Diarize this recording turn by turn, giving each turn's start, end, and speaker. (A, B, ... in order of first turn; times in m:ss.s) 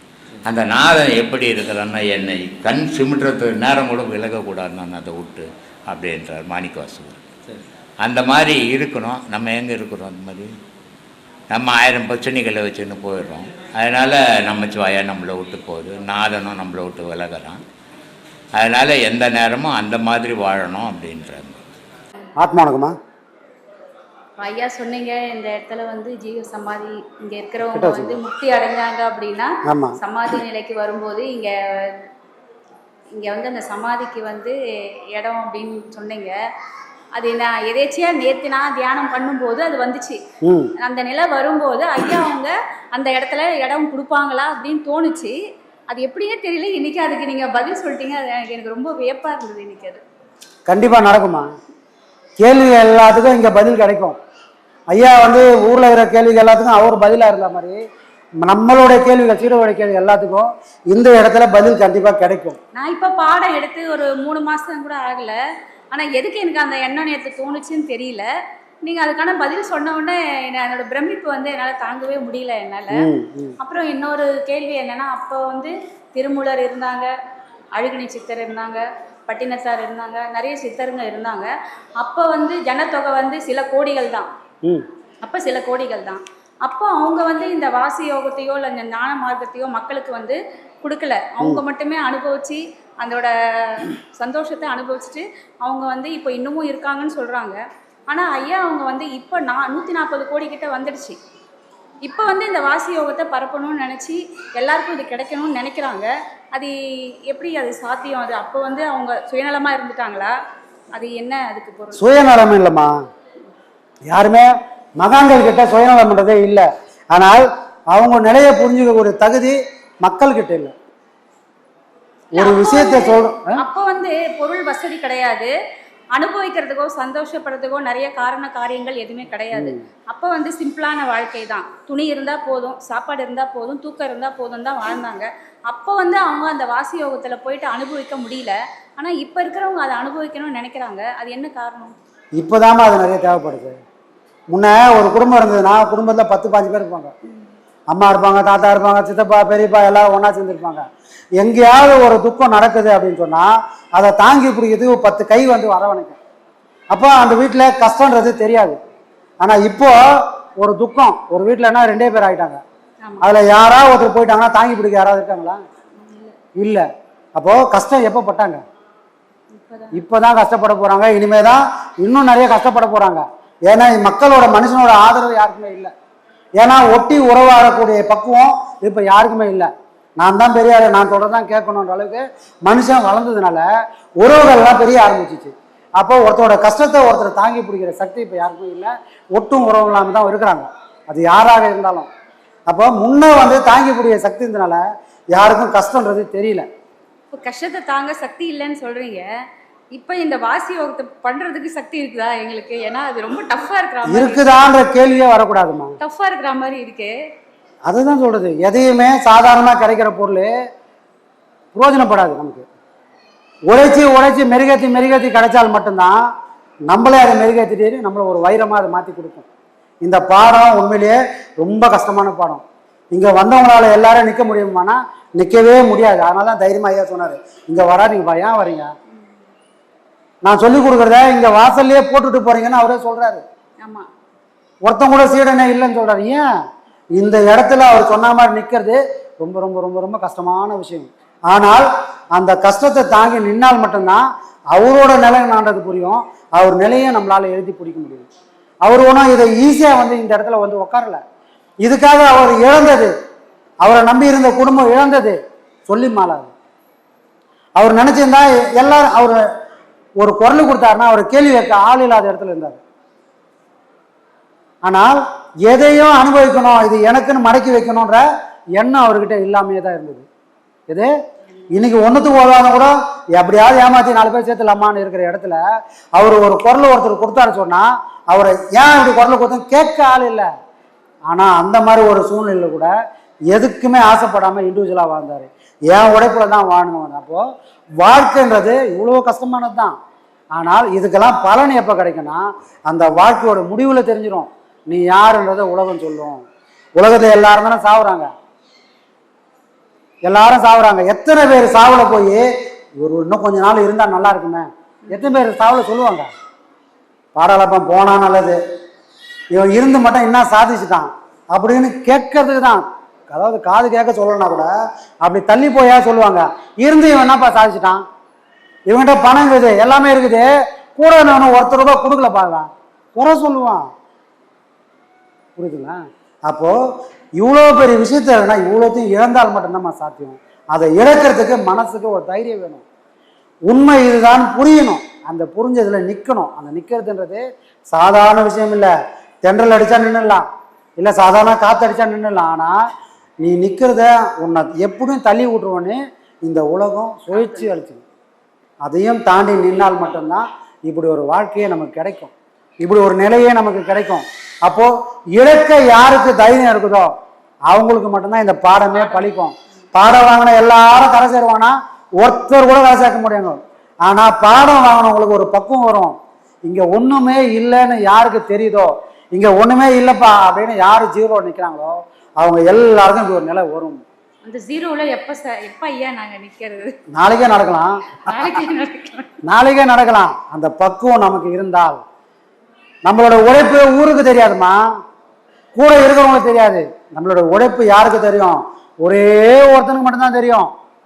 0:00.4-0:07.2 A
0:08.0-0:10.5 A
0:11.5-0:17.6 A
0:18.6-0:21.6 A
0:22.4-0:22.9 B
0:24.4-0:32.0 C
0:27.6-0:28.2 B
0:29.7-0:30.0 B
0:33.2-0:34.6 C
0:35.1-0:36.3 C
0:37.2-0:40.2 C
0:40.8-0:45.3 C
0:45.9-0:50.0 C
0:50.7-0:51.5 B
0:52.4-0:54.2 B
0:54.9-0:57.8 B
0:58.4-1:02.6 B
1:02.7-1:05.4 C
1:05.9-1:08.2 C
1:08.8-1:13.0 C
1:12.9-1:13.5 B
1:13.6-1:17.1 C
1:17.7-1:24.3 C
1:25.2-1:37.6 C
1:38.1-1:41.2 C
1:42.0-1:46.7 C
1:47.2-1:50.3 C
1:50.9-1:52.1 C
1:52.0-1:52.9 B
1:54.1-1:54.5 B
1:55.0-2:00.7 B
2:02.3-2:05.5 C
2:02.3-2:03.6 B
2:06.1-2:21.9 C
2:09.5-2:09.8 B
2:22.4-2:23.8 B
2:24.5-2:27.1 B
2:27.9-2:30.8 B
2:31.4-2:36.2 B
2:36.9-2:38.8 B
2:39.4-2:40.0 B
2:40.6-2:42.6 B
2:43.0-2:43.3 C
2:43.2-2:45.6 B
2:46.0-2:46.3 C
2:46.6-2:46.8 B
2:47.4-2:48.6 B
2:49.5-2:50.0 C
2:49.9-2:55.9 B
2:56.6-3:03.6 B
3:04.2-3:12.1 B
3:12.7-3:14.8 B
3:15.3-3:16.6 B
3:17.3-3:19.2 C
3:19.9-3:24.6 C
3:24.1-3:25.9 B
3:26.0-3:27.1 C
3:27.9-3:30.5 B
3:31.7-3:32.6 B
3:33.7-3:36.2 B
3:36.9-3:39.4 B
3:40.0-3:48.9 B
3:50.4-3:53.4 B
3:53.8-3:54.1 C
3:54.8-3:56.4 B
3:57.2-4:08.3 B
4:08.8-4:11.2 B
4:11.8-4:13.1 B
4:13.8-4:16.5 B
4:17.8-4:19.4 B
4:20.2-4:22.8 B
4:24.8-4:28.2 B
4:28.8-4:30.2 B
4:31.7-4:35.6 B
4:36.1-4:40.5 B
4:41.3-4:42.9 B
4:43.5-4:47.4 B
4:48.0-4:49.9 B
4:50.5-4:56.4 B
4:57.0-4:58.3 B
5:00.2-5:02.4 B
5:03.0-5:06.3 B
5:05.1-5:05.4 C
5:07.3-5:08.6 B
5:09.5-5:14.7 B
5:15.2-5:18.0 B
5:18.9-5:23.8 B
5:25.6-5:26.7 B
5:27.4-5:32.8 B
5:33.7-5:38.9 B
5:39.4-5:40.4 B
5:41.0-5:42.8 B
5:43.4-5:48.0 B
5:47.3-5:47.7 C
5:48.8-5:57.1 B
5:57.7-6:06.1 B
5:58.9-5:59.4 C
6:06.7-6:14.0 B
6:14.4-6:17.0 C
6:17.1-6:18.5 B
6:18.2-6:19.3 C
6:19.5-6:22.0 B
6:23.0-6:24.8 B
6:25.7-6:30.7 B